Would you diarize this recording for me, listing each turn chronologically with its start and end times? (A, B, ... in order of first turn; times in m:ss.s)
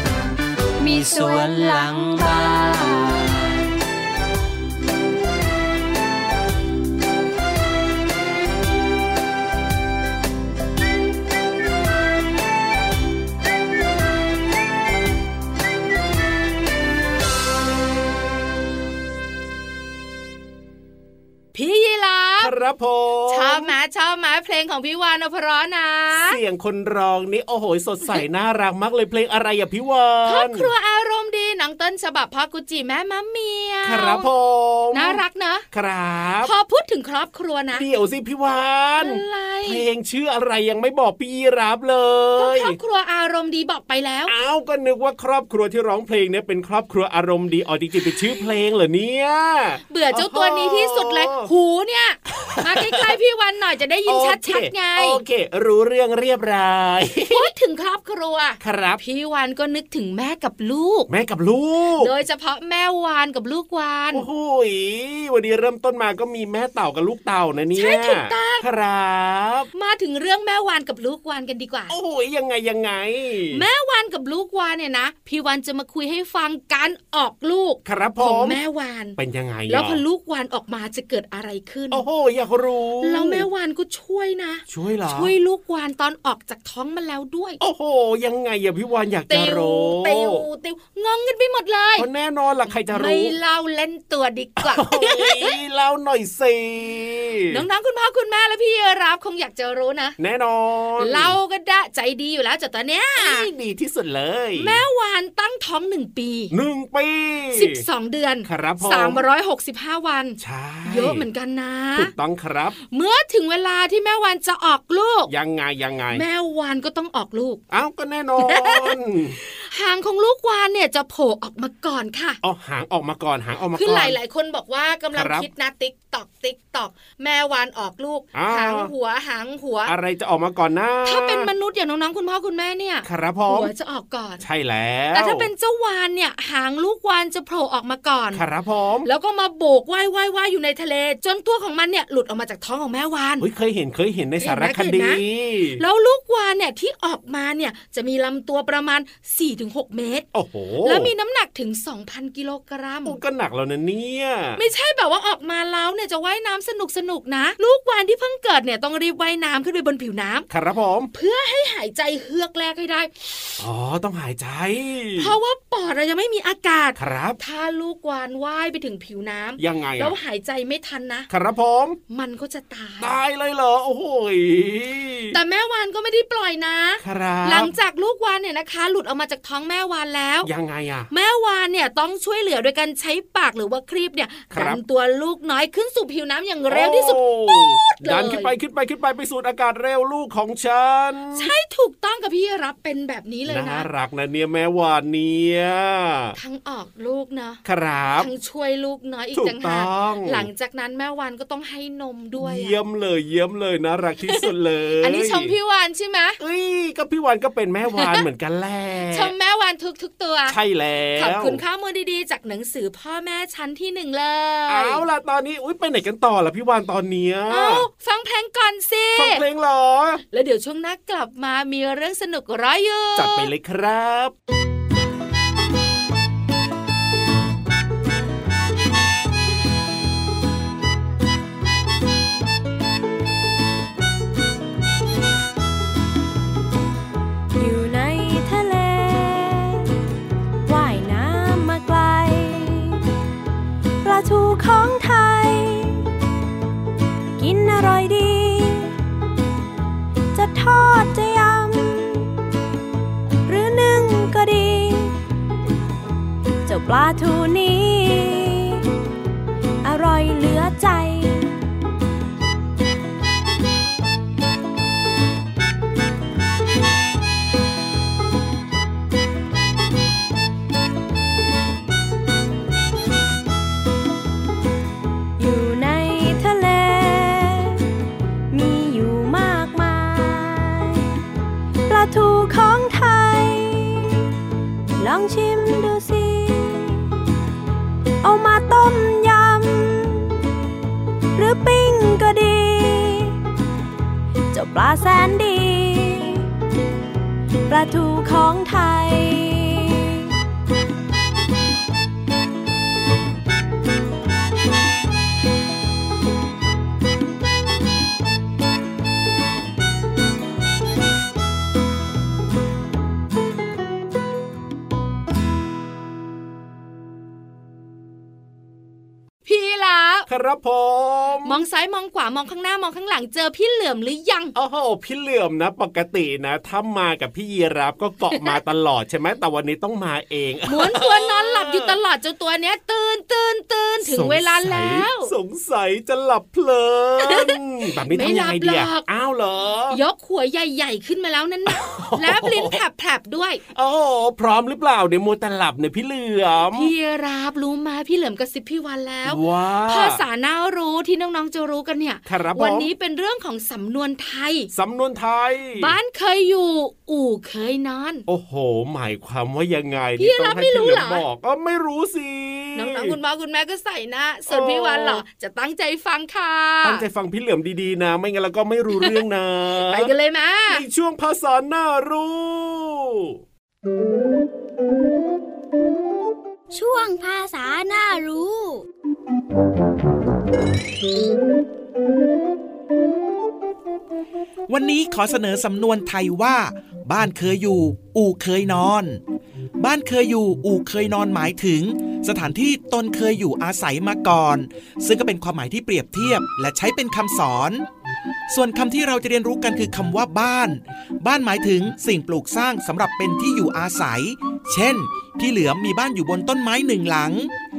0:00.8-0:03.7 A
0:21.5-0:22.5 B
0:22.4-0:23.7 C
0:23.3-0:26.4 B
0:26.1-0:30.7 C
0:30.2-0:34.3 B
0:33.8-0:35.2 C
0:34.9-0:35.6 B
0:35.7-0:36.5 C
0:36.4-0:37.8 B
0:37.7-0:42.8 C
0:39.0-0:39.8 B
0:42.4-0:44.3 B
0:44.3-0:51.5 C
0:49.9-0:55.2 B
0:52.3-0:53.1 C
0:54.1-0:57.5 C
0:57.3-1:01.1 B
0:58.6-0:59.0 C
1:01.1-1:02.1 C
1:02.0-1:04.2 B
1:04.1-1:09.7 C
1:07.7-1:08.6 B
1:09.7-1:11.9 B
1:11.9-1:13.6 C
1:13.5-1:22.0 B
1:17.8-1:18.6 C
1:19.2-1:20.0 C
1:21.9-1:23.4 C
1:23.0-1:27.6 B
1:24.7-1:25.3 C
1:27.6-1:30.4 C
1:29.3-1:32.1 B
1:32.0-1:33.3 C
1:32.9-1:35.6 B
1:34.6-1:37.6 C
1:37.5-1:40.1 B
1:40.2-1:41.4 C
1:41.0-1:43.5 B
1:43.2-1:44.8 C
1:44.6-1:46.5 B
1:46.5-1:47.8 C
1:47.5-1:52.1 B
1:48.4-1:49.2 C
1:50.4-1:51.2 C
1:51.9-1:52.8 C
1:52.9-1:55.3 B
1:55.3-1:56.2 C
1:56.1-1:57.6 B
1:57.7-1:59.4 C
1:58.4-2:02.4 B
2:02.4-2:04.2 C
2:03.7-2:09.9 B
2:05.1-2:05.5 C
2:08.3-2:08.9 C
2:09.8-2:11.5 C
2:11.0-2:14.4 B
2:13.0-2:13.7 C
2:14.4-2:15.5 C
2:15.1-2:18.4 B
2:18.3-2:19.1 C
2:19.0-2:23.4 B
2:23.4-2:25.8 C
2:24.4-2:25.2 B
2:25.8-2:30.3 B
2:30.3-2:31.1 C
2:30.8-2:33.2 B
2:33.0-2:34.6 C
2:34.6-2:40.5 B
2:40.5-2:41.1 C
2:41.1-2:43.1 B
2:43.6-2:45.3 C
2:45.2-2:51.3 B
2:47.0-2:47.4 C
2:49.6-2:50.1 C
2:51.3-2:52.0 C
2:52.1-2:53.1 B
2:53.0-2:55.4 C
2:55.3-3:00.5 B
2:57.0-2:57.7 C
3:00.4-3:01.1 C
3:01.1-3:08.5 B
3:04.5-3:04.8 C
3:06.7-3:11.5 C
3:11.3-3:13.9 B
3:13.5-3:16.4 C
3:16.4-3:17.6 B
3:17.6-3:18.3 C
3:18.2-3:22.8 B
3:19.3-3:20.5 C
3:22.4-3:25.5 C
3:25.0-3:26.4 B
3:26.4-3:29.3 C
3:28.0-3:28.2 B
3:29.1-3:30.6 B
3:30.5-3:31.6 C
3:31.2-3:35.0 B
3:34.7-3:37.8 C
3:37.5-3:39.4 B
3:39.2-3:40.2 C
3:40.3-3:43.5 B
3:43.1-3:44.3 C
3:57.6-3:59.9 D
4:00.6-4:03.0 D
4:04.0-4:06.1 D
4:07.4-4:08.9 D
4:10.3-4:12.4 D
4:13.4-4:15.2 D
4:16.6-4:18.9 D
4:19.8-4:21.6 D
4:35.4-4:37.8 D
4:38.5-4:41.1 D
4:41.9-4:44.2 D
4:45.0-4:47.1 D
4:48.2-4:50.4 D
4:51.3-4:53.4 D
4:54.5-4:56.5 D
4:57.7-5:00.3 D
5:19.4-5:20.3 B
5:20.3-5:21.6 C
5:21.4-5:24.5 B
5:24.5-5:32.0 C
5:30.7-5:35.3 B
5:34.0-5:40.0 C
5:37.2-5:37.6 B
5:38.1-5:39.0 B
5:39.9-5:43.6 B
5:41.7-5:42.8 C
5:43.7-5:46.9 C
5:46.7-5:54.7 B
5:49.2-5:50.2 C
5:52.2-5:52.9 C
5:54.7-5:55.9 C
5:55.8-5:58.2 B
5:58.3-6:03.2 C
6:00.2-6:01.2 B
6:02.7-6:07.0 B
6:04.5-6:05.2 C
6:06.8-6:10.1 C
6:09.9-6:10.8 B
6:10.7-6:13.4 C
6:16.7-6:18.8 E
6:24.7-6:29.2 F
6:29.8-6:37.8 F
6:38.5-6:47.5 F